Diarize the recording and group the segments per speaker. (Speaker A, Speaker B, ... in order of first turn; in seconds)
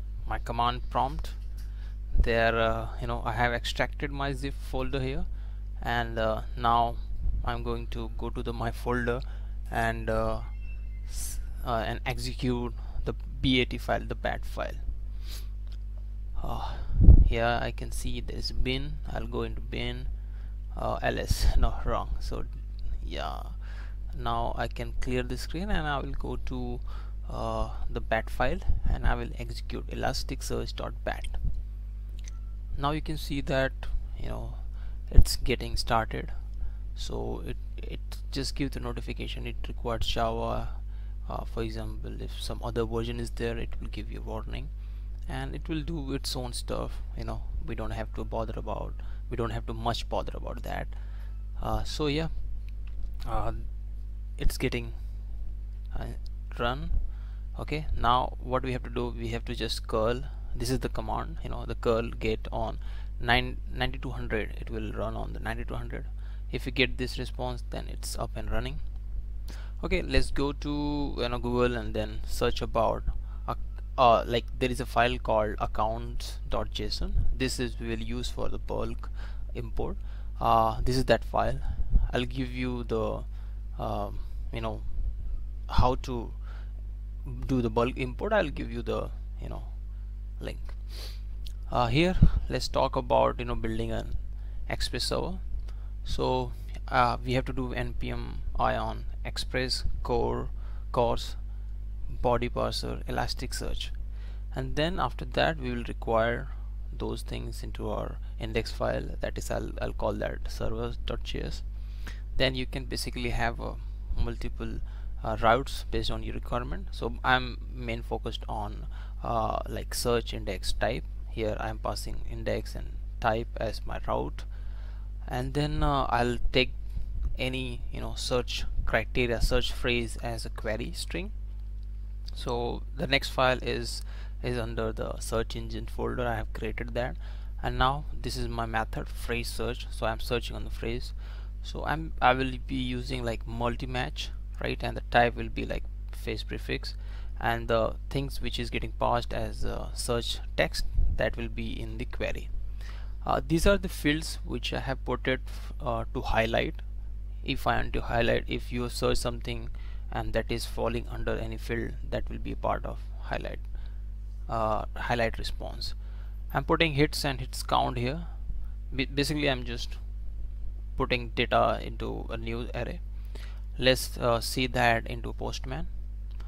Speaker A: 0.2-15.4, 16.4-31.8, 32.7-131.6, 132.3-176.2